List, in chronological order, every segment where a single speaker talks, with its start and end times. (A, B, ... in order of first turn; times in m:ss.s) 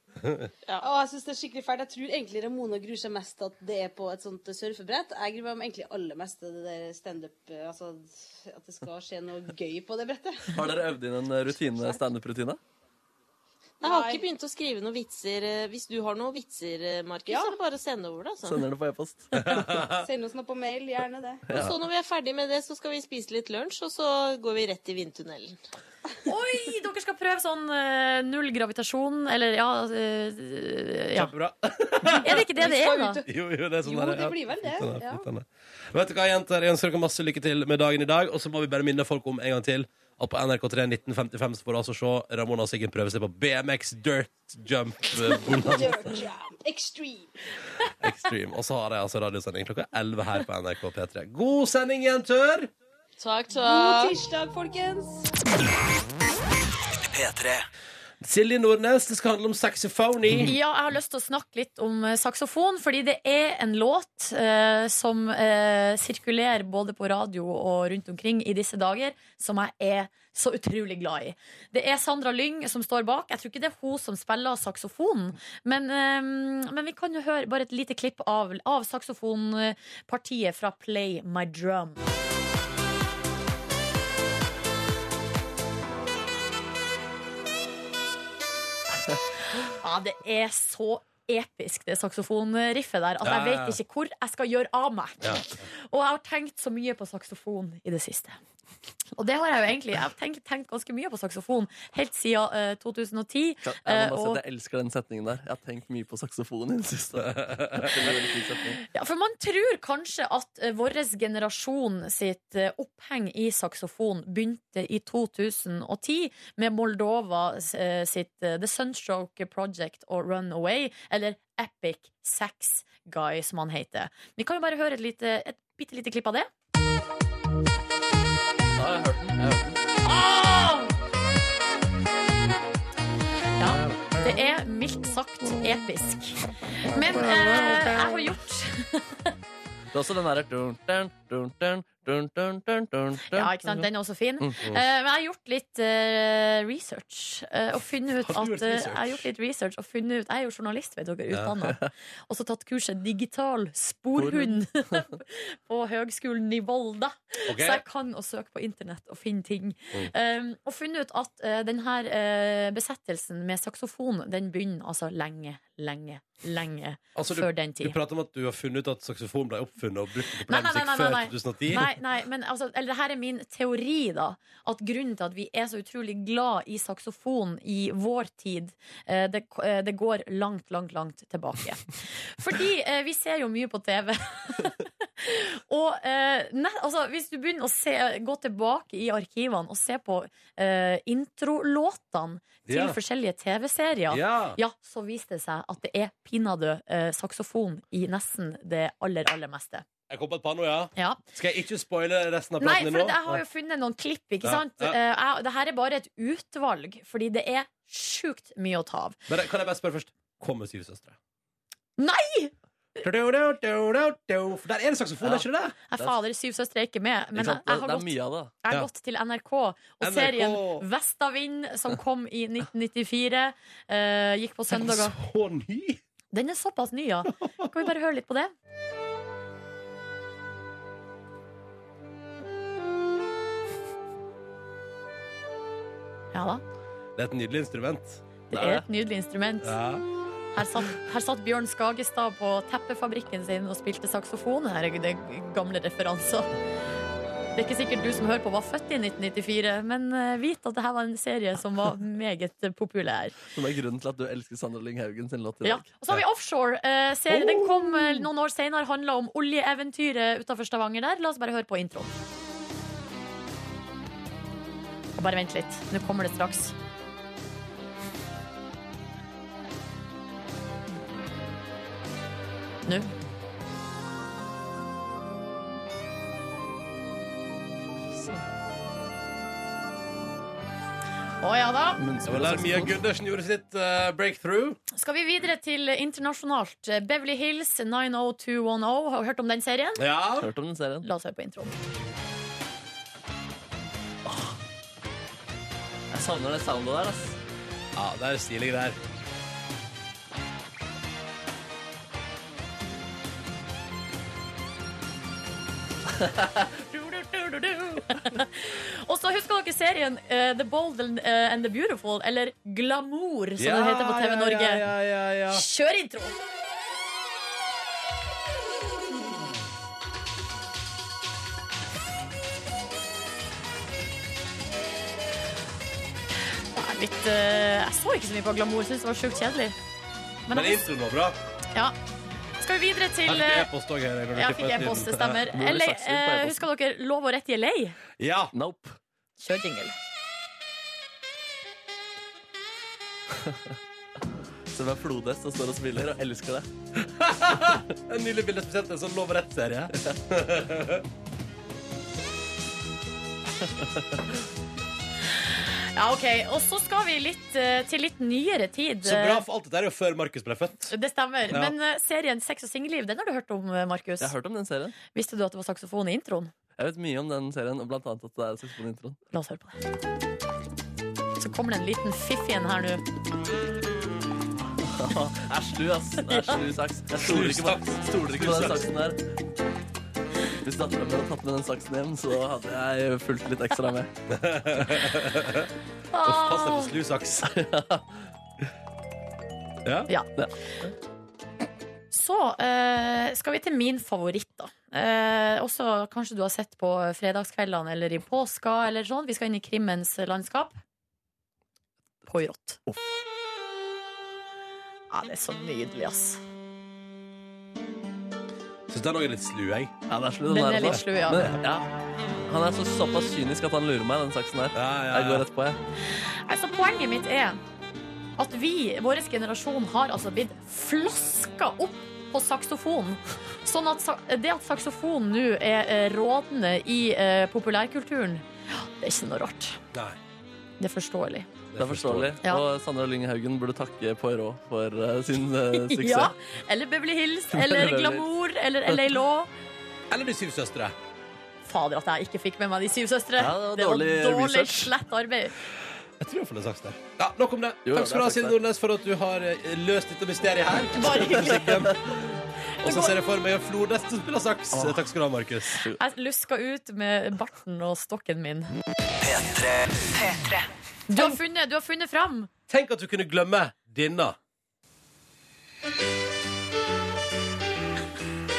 0:00.2-0:00.5 A
0:00.8-0:10.9 B
0:10.5-0:12.6 C
0:11.7-0:12.0 B
0:13.8-0:14.3 B
0:13.8-0:18.7 D
0:17.3-0:17.6 B
0:18.4-0:19.6 C
0:19.4-0:20.0 A
0:19.8-0:21.5 B
0:21.5-0:25.6 D
0:26.3-0:31.3 E
0:31.2-0:32.5 A
0:32.1-0:33.2 E
0:32.6-0:35.3 B
0:33.3-0:46.2 A
0:45.3-0:47.3 B
0:48.0-0:52.7 A
0:53.2-0:54.2 D
0:53.5-0:55.3 B
0:57.0-0:57.6 F
0:58.2-1:00.5 A
1:00.4-1:22.0 E
1:29.6-1:38.4 E
1:33.2-1:33.8 A
1:39.2-1:44.4 E
1:43.6-1:48.8 C
1:47.4-1:47.9 A
1:48.9-2:06.5 E
2:08.8-2:09.8 C
2:10.0-2:10.9 E
2:13.6-2:19.3 E
2:19.9-2:23.9 C
2:23.3-2:48.0 E
2:28.2-2:29.3 A
2:31.3-2:31.7 A
2:34.2-2:34.6 C
2:37.5-2:37.8 A
2:47.2-2:51.9 A
2:50.4-3:19.8 E
3:12.7-3:13.0 A
3:14.1-3:14.6 A
3:20.1-3:23.4 A
3:21.0-3:21.2 E
3:22.6-3:29.2 E
3:24.4-3:25.0 A
3:29.3-3:31.2 A
3:32.0-3:32.5 E
3:33.0-3:35.8 A
3:35.9-3:45.2 E
3:37.4-3:38.5 C
3:40.0-3:40.8 A
3:44.7-3:46.0 A
3:46.3-3:48.5 E
3:47.4-3:47.7 A
3:56.3-3:56.6 E
3:57.2-3:58.2 A
3:58.5-3:59.8 E
3:58.5-3:58.8 C
3:59.6-4:00.0 A
4:00.6-4:06.5 E
4:07.6-4:13.4 E
4:13.5-4:15.9 C
4:15.6-4:22.2 E
4:25.2-4:26.7 E
4:41.4-4:42.0 E
4:42.0-4:43.0 C
4:42.3-4:44.8 A
4:44.9-4:50.0 E
4:50.0-4:50.5 A
4:50.4-4:51.1 C
4:51.0-4:51.8 E
4:54.3-4:54.6 C
4:56.1-4:57.4 C
4:58.0-4:59.0 A
5:06.2-5:06.7 C
5:06.9-5:14.9 E
5:13.6-5:15.6 A
5:15.5-5:16.4 E
5:26.7-5:29.8 E
5:30.5-5:30.9 E
5:30.5-5:31.4 A
5:32.6-5:33.7 E
5:33.3-5:35.4 A
5:34.3-5:38.0 E
5:35.5-5:36.6 C
5:38.2-5:38.5 A
5:38.5-5:39.0 C
5:39.4-5:40.0 E
5:44.7-5:46.7 C
5:47.0-5:51.0 A
5:55.4-5:59.4 E
5:59.0-6:00.9 A
6:00.9-6:04.3 E
6:01.5-6:01.8 A
6:04.2-6:05.0 C
6:05.1-6:06.5 E
6:06.8-6:09.2 C
6:09.3-6:09.8 E
6:11.4-6:13.0 E
6:14.9-6:19.2 C
6:17.2-6:18.9 A
6:20.6-6:24.1 C
6:24.3-6:25.7 A
6:26.1-6:26.9 E
6:26.2-6:27.5 A
6:27.5-6:28.0 C
6:29.8-6:30.1 A
6:30.4-6:30.9 C
6:32.1-6:40.8 E
6:42.3-6:42.8 E
6:42.9-6:43.2 C
6:45.1-6:46.4 E
6:48.9-6:49.9 A
6:50.1-6:51.8 C
6:50.5-6:51.4 E
6:52.5-6:55.8 C
6:54.8-6:55.4 A
6:56.1-6:57.6 E
6:58.4-7:09.8 E
7:09.9-7:10.2 A
7:10.8-7:11.5 E
7:11.7-7:12.3 A
7:11.8-7:16.3 C
7:15.8-7:19.5 E
7:17.5-7:18.3 C
7:20.1-7:21.0 A
7:21.6-7:25.5 E
7:23.4-7:24.9 C
7:26.2-7:32.0 A
7:27.9-7:28.6 C
7:31.0-7:31.9 E
7:31.4-7:32.0 C
7:32.8-7:33.2 E
7:32.8-7:35.8 A
7:34.7-7:35.1 C
7:35.9-7:38.7 E
7:39.2-7:40.7 F
7:41.1-7:42.5 E
7:42.7-7:44.4 A